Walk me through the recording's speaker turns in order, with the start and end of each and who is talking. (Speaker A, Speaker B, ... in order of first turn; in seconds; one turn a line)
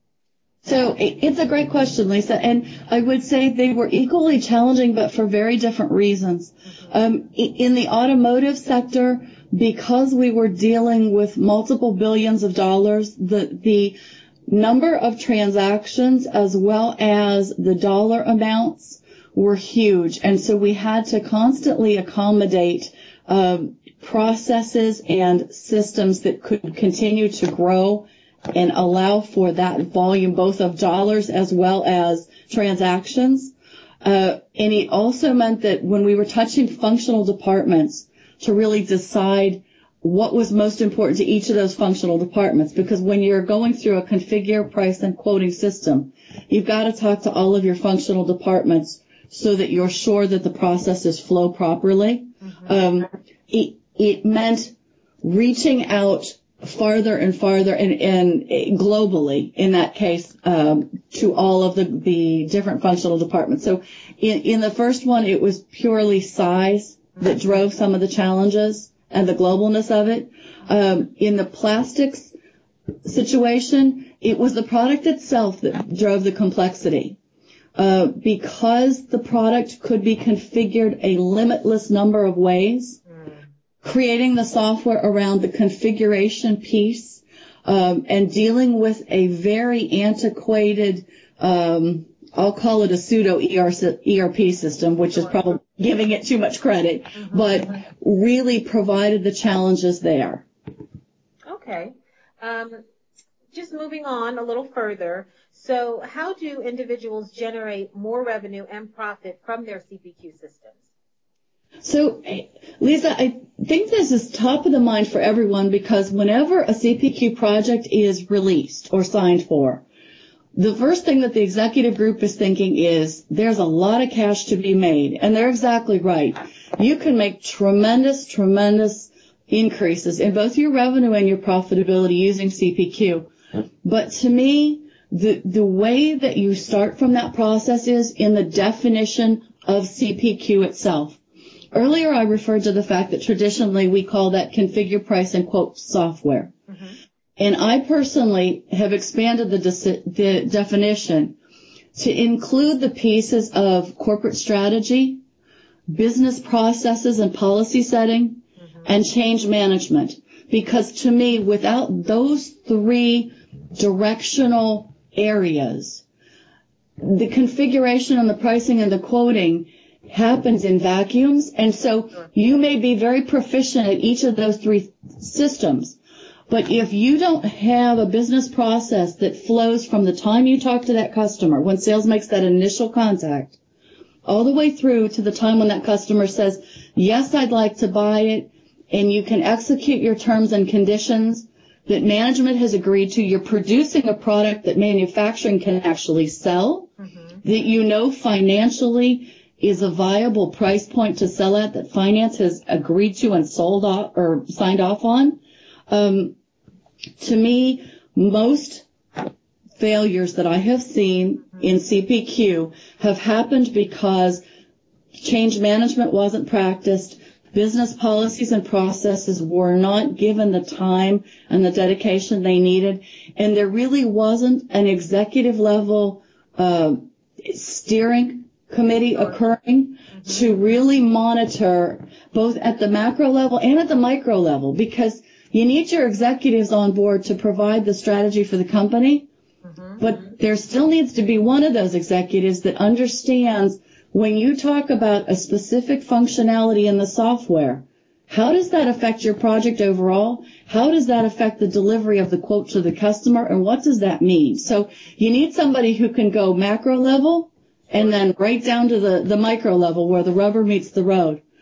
Speaker A: 0.6-72.3
Speaker B: 52.4-52.7
Speaker A: 73.0-77.2
Speaker A: 77.8-83.0
Speaker A: 83.8-100.5
Speaker B: 97.2-97.5
Speaker B: 101.5-102.8
Speaker B: 103.5-110.9
Speaker A: 111.8-119.8
Speaker A: 120.5-133.3
Speaker A: 133.8-141.2
Speaker A: 141.7-146.5
Speaker B: 146.7-147.0
Speaker A: 147.4-151.4
Speaker A: 151.9-155.2
Speaker A: 155.9-166.0
Speaker A: 167.0-176.0
Speaker A: 176.5-183.6
Speaker A: 184.3-196.9
Speaker B: 197.0-197.4
Speaker A: 197.4-206.4
Speaker A: 207.2-208.9
Speaker A: 209.8-214.4
Speaker A: 215.2-239.3
Speaker B: 230.1-230.5
Speaker B: 239.7-240.0
Speaker A: 240.0-261.4